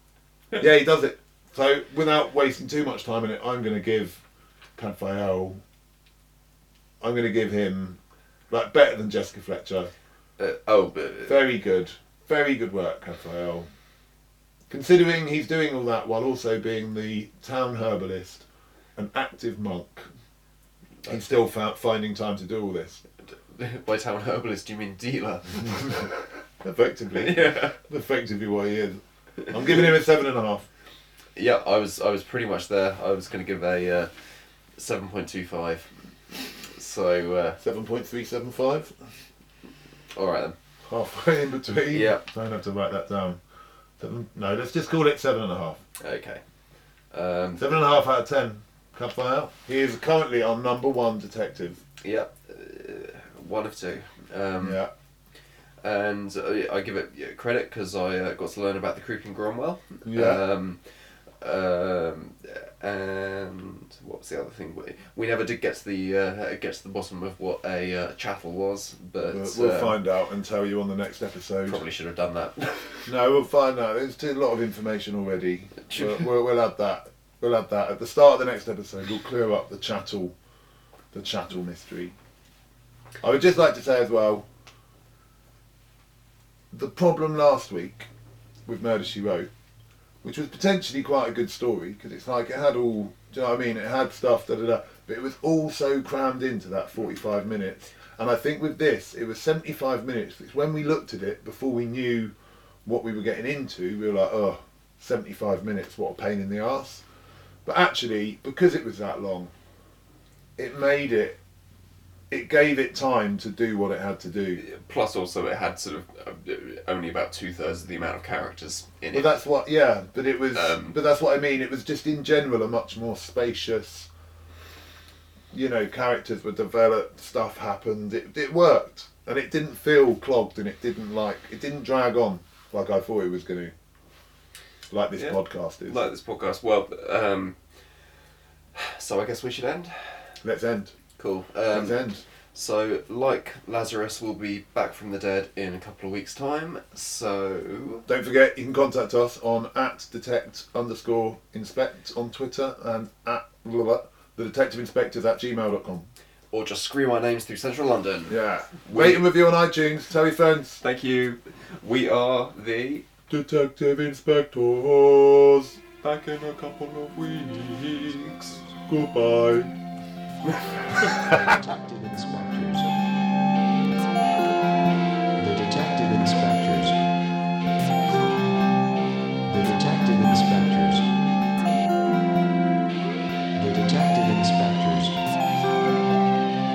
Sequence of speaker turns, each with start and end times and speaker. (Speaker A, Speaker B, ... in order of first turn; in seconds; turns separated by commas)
Speaker A: 0.6-4.2, Speaker A: 4.8-5.6, Speaker A: 7.0-8.0, Speaker A: 8.5-9.9, Speaker B: 10.4-11.4, Speaker A: 11.2-13.7, Speaker A: 14.7-18.4, Speaker A: 18.9-20.1, Speaker A: 21.1-23.0, Speaker B: 23.3-26.2, Speaker A: 26.6-30.7, Speaker B: 27.1-27.8, Speaker B: 29.4-29.7, Speaker B: 31.4-34.1, Speaker B: 34.8-37.6, Speaker A: 37.6-39.0, Speaker B: 40.1-40.5, Speaker A: 40.9-43.4, Speaker B: 41.9-42.2, Speaker A: 44.0-45.8, Speaker B: 46.0-46.4, Speaker B: 47.1-47.8, Speaker A: 47.6-51.8, Speaker B: 52.0-54.8, Speaker A: 54.6-54.9, Speaker B: 55.8-60.8, Speaker A: 60.0-60.4, Speaker B: 61.4-70.0, Speaker A: 69.3-71.8, Speaker B: 71.7-73.1, Speaker A: 73.0-80.3, Speaker B: 75.8-76.2, Speaker A: 81.1-82.1, Speaker A: 83.2-84.5, Speaker A: 86.7-88.1, Speaker A: 88.7-89.5, Speaker A: 90.2-102.3, Speaker A: 102.8-107.0, Speaker A: 107.6-109.5, Speaker A: 110.6-111.4, Speaker A: 112.3-114.6, Speaker B: 114.6-119.3, Speaker A: 119.1-124.1, Speaker B: 120.5-121.0, Speaker A: 125.5-133.7, Speaker A: 134.9-136.0, Speaker B: 135.1-137.6, Speaker B: 138.7-140.3, Speaker A: 140.4-140.9, Speaker B: 141.2-142.0, Speaker A: 141.7-142.2, Speaker B: 142.5-148.1, Speaker A: 148.1-156.1, Speaker B: 156.5-159.3, Speaker A: 158.3-160.8, Speaker B: 160.8-163.0, Speaker A: 163.3-165.8, Speaker B: 166.0-168.6, Speaker A: 168.8-169.7, Speaker C: 171.0-172.9, Speaker C: 175.4-177.0, Speaker C: 179.4-181.1, Speaker C: 183.6-185.2